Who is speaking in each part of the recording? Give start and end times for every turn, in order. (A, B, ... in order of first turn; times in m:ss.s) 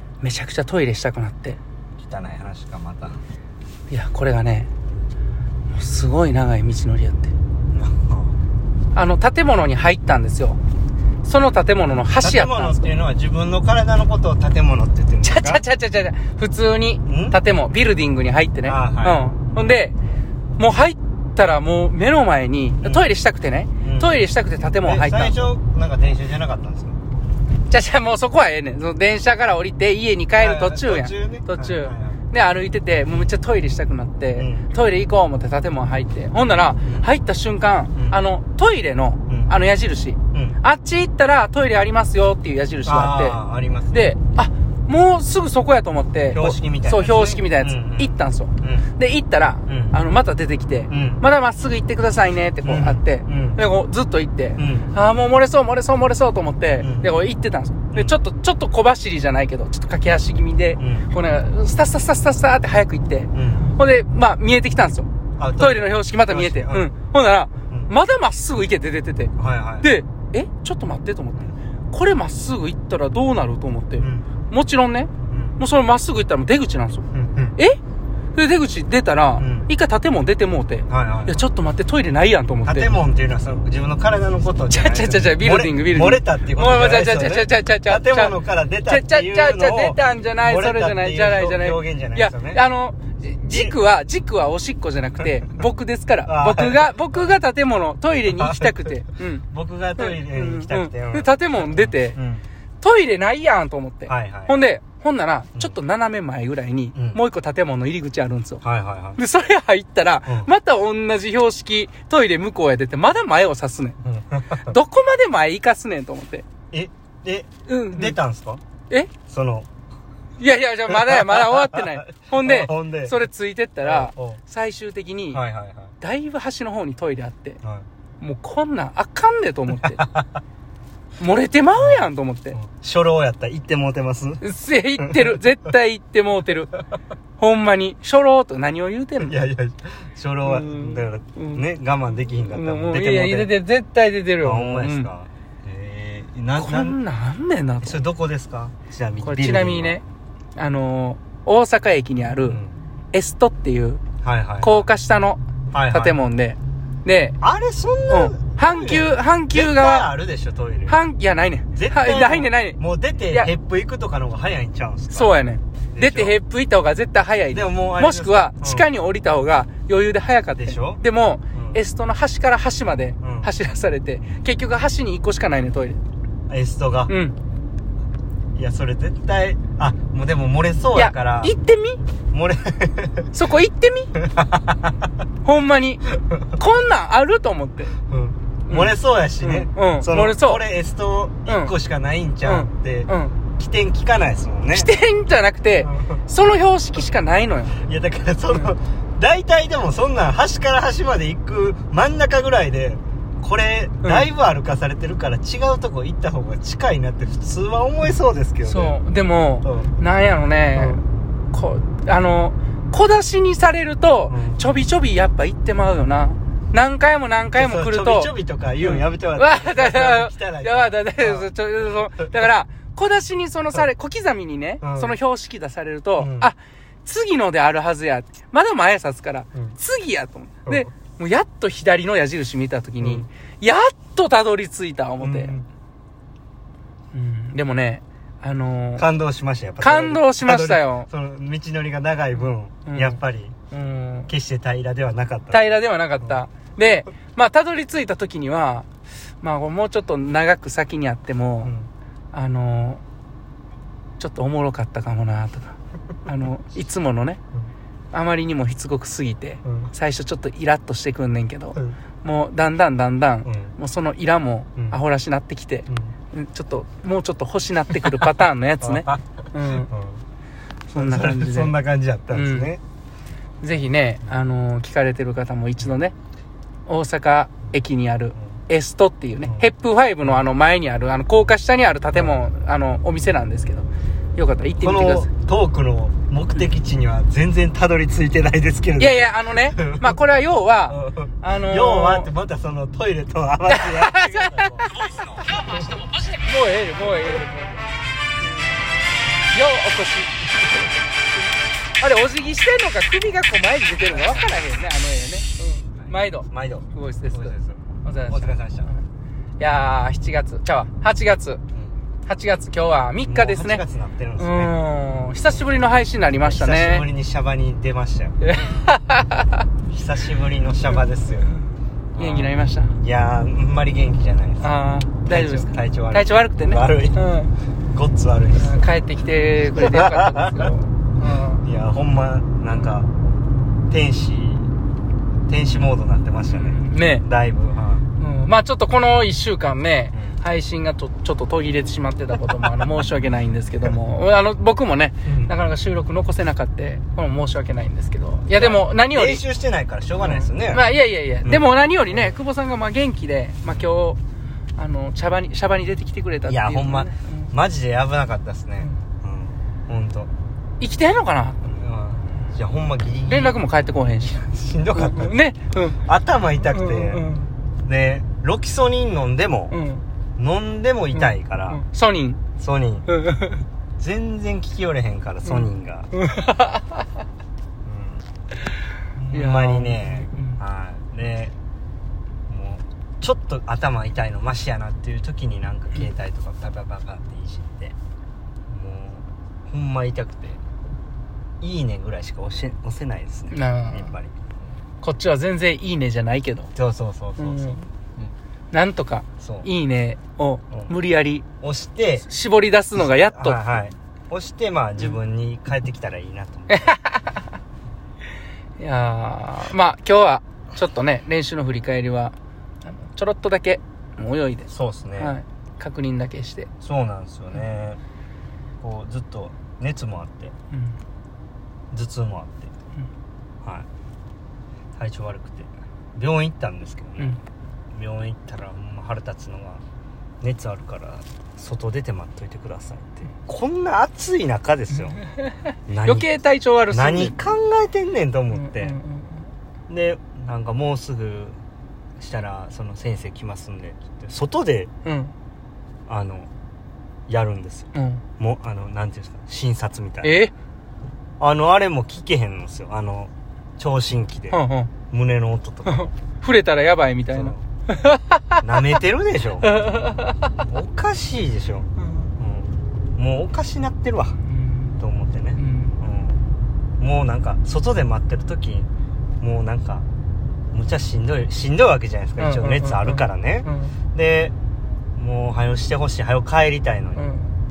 0:00.2-0:01.6 A
0:02.0-0:03.2 B
0:03.9-0:04.7 A
0:05.7-0:07.3 A
0:07.7-0:08.4 B
0:08.9-0:10.6 A
0:11.2-0:12.9 A
0:12.2-0:15.6 B
0:15.2-0:20.0 A
0:17.0-0:17.4 B
0:18.6-0:19.3 B
0:20.6-0:25.4 A
0:23.8-0:24.1 B
0:24.8-0:27.0 B
0:27.7-0:43.4 A
0:30.4-0:32.2 B
0:34.3-0:34.7 B
0:36.8-0:37.1 B
0:39.3-0:39.5 B
0:40.3-0:40.6 B
0:42.8-0:44.1 B
0:43.9-1:17.0 A
0:46.3-0:48.9 B
0:49.7-0:50.0 B
0:50.9-0:51.2 B
0:52.6-0:53.6 B
0:54.6-0:54.9 B
0:56.8-0:57.1 B
1:00.8-1:01.1 B
1:03.3-1:03.7 B
1:05.4-1:06.9 B
1:09.4-1:09.9 B
1:14.0-1:14.3 B
1:15.3-1:15.6 B
1:17.1-1:17.6 B
1:18.3-1:22.9 A
1:19.4-1:19.7 B
1:20.9-1:21.4 B
1:22.6-1:32.6 B
1:24.7-1:39.4 A
1:33.5-1:33.8 B
1:36.2-1:37.3 B
1:38.3-1:42.4 B
1:40.0-1:42.2 A
1:42.8-1:48.6 A
1:44.1-1:44.6 B
1:46.9-1:47.2 B
1:48.6-1:49.2 B
1:49.2-1:54.0 A
1:50.2-1:50.5 B
1:54.0-1:54.7 B
1:54.5-1:56.5 A
1:56.7-1:58.6 B
1:57.7-1:58.2 A
1:59.3-1:59.7 B
2:00.4-2:05.4 A
2:00.9-2:03.2 B
2:03.8-2:04.4 B
2:05.3-2:05.9 B
2:06.0-2:07.6 A
2:08.2-2:10.0 A
2:09.8-2:10.3 B
2:11.2-2:12.6 A
2:11.8-2:14.4 B
2:14.4-2:16.7 A
2:15.0-2:15.4 B
2:17.4-2:19.4 A
2:19.2-2:23.5 B
2:20.4-2:21.6 A
2:22.3-2:25.1 A
2:24.4-2:27.0 B
2:26.6-2:28.0 A
2:27.8-2:30.0 B
2:29.2-2:30.0 A
2:30.6-2:32.6 A
2:32.4-2:32.8 B
2:33.1-2:34.0 A
2:34.2-2:34.9 B
2:34.6-2:35.4 A
2:35.7-2:36.2 B
2:35.9-2:37.4 A
2:37.4-2:41.0 B
2:38.1-2:40.1 A
2:40.9-2:42.8 A
2:41.8-2:45.3 B
2:45.1-2:56.0 A
2:45.9-2:46.3 B
2:47.5-2:48.9 B
2:50.6-2:51.0 B
2:51.5-2:51.8 B
2:53.2-2:53.5 B
2:56.5-2:57.1 B
2:57.1-2:57.3 A
2:58.5-3:01.5 B
3:00.9-3:02.0 A
3:02.3-3:03.3 B
3:03.3-3:04.1 A
3:04.2-3:04.9 B
3:05.4-3:08.0 A
3:08.1-3:14.9 B
3:08.7-3:10.6 A
3:11.5-3:11.7 A
3:12.4-3:13.4 A
3:14.7-3:17.8 A
3:15.8-3:16.2 B
3:17.8-3:29.0 B
3:24.0-3:24.3 A
3:28.6-3:38.3 A
3:29.6-3:29.9 B
3:34.3-3:34.7 B
3:37.5-3:42.4 B
3:38.8-3:55.5 A
3:44.8-3:45.2 B
3:46.2-3:46.5 B
3:53.0-3:53.3 B
3:55.2-3:55.7 B
3:57.1-3:59.1 A
3:59.0-4:03.6 B
3:59.8-4:01.1 A
4:02.8-4:03.2 A
4:03.7-4:04.3 A
4:04.3-4:06.4 B
4:05.5-4:08.9 A
4:09.4-4:11.7 A
4:11.6-4:11.9 B
4:12.3-4:13.0 A
4:14.2-4:17.4 A
4:18.1-4:29.9 A
4:19.6-4:19.9 B
4:23.4-4:23.8 B
4:25.9-4:26.1 B
4:28.8-4:30.2 B
4:30.9-4:31.7 A
4:30.9-4:32.8 B
4:32.3-4:32.7 A
4:33.6-4:36.1 A
4:36.9-4:45.3 A
4:39.4-4:39.7 B
4:44.8-4:50.2 B
4:49.0-4:52.3 A
4:50.9-4:56.0 B
4:53.7-4:55.1 A
4:55.7-4:57.9 A
4:58.4-4:58.8 A
4:59.5-5:00.5 A
5:02.0-5:09.0 A
5:04.0-5:04.6 B
5:06.0-5:08.9 B
5:09.6-5:11.6 A
5:12.2-5:13.8 A
5:13.2-5:14.8 B
5:14.4-5:17.0 A
5:16.4-5:18.4 B
5:18.4-5:19.6 A
5:19.9-5:21.5 B
5:22.1-5:24.7 B
5:22.2-5:23.0 A
5:24.6-5:27.5 A
5:25.2-5:27.2 B
5:27.9-5:28.8 B
5:28.6-5:31.6 A
5:29.8-5:30.7 B
5:31.5-5:33.1 B
5:33.9-5:34.7 B
5:35.5-5:38.0 B
5:36.5-5:37.2 A
5:38.2-5:49.4 A
5:40.1-5:40.4 B
5:45.2-5:45.5 B
5:48.6-5:50.8 B
5:50.2-5:54.2 A
5:51.4-5:52.4 B
5:53.6-5:53.9 B
5:54.8-5:57.5 A
5:56.4-6:00.3 B
6:00.8-6:01.6 A
6:01.6-6:03.6 B
6:03.3-6:04.4 A
6:04.2-6:05.4 B
6:04.9-6:06.0 A
6:06.0-6:07.3 B
6:06.6-6:07.5 A
6:07.8-6:09.8 B
6:09.7-6:10.0 A
6:10.4-6:11.8 B
6:11.2-6:12.4 A
6:12.6-6:13.1 B
6:13.1-6:13.6 A
6:14.0-6:16.1 B
6:15.4-6:17.0 A
6:17.8-6:18.2 B
6:19.2-6:21.6 B
6:19.3-6:20.6 A
6:22.5-6:27.9 B
6:28.7-6:30.6 B
6:31.6-6:34.3 B
6:33.5-6:34.1 A
6:35.0-6:36.7 A
6:36.8-6:38.3 B
6:37.4-6:37.8 A
6:38.7-6:41.4 A
6:39.4-6:39.7 B
6:41.6-6:42.2 B
6:42.2-6:43.6 A
6:43.3-6:47.0 B
6:46.7-6:47.4 A
6:48.8-6:56.7 A
6:54.7-6:55.3 B
6:56.8-6:58.0 B
6:58.8-7:00.5 B
7:00.7-7:01.0 A
7:01.9-7:02.7 B
7:05.0-7:07.4 B
7:07.9-7:09.8 B
7:10.4-7:15.2 B
7:15.1-7:17.4 A
7:15.9-7:16.3 B
7:16.9-7:19.0 B
7:18.5-7:19.5 A
7:19.9-7:21.6 B
7:22.2-7:24.9 B
7:25.0-7:25.3 A
7:26.1-7:26.5 B
7:27.3-7:30.4 B
7:27.9-7:28.2 A
7:30.2-7:30.5 A
7:31.4-7:34.6 B
7:34.5-7:34.9 A
7:35.1-7:36.1 B
7:35.9-7:38.6 A
7:37.3-7:37.6 B
7:38.6-7:39.8 B
7:39.6-7:40.5 A
7:40.6-7:44.4 B
7:42.0-7:42.3 A
7:44.5-7:45.0 A
7:45.0-7:46.4 B
7:45.6-7:46.0 A
7:47.0-7:48.9 B
7:49.4-7:50.1 B
7:50.7-7:54.5 B
7:52.4-7:54.0 A
7:55.2-7:57.3 B
7:57.2-7:57.5 A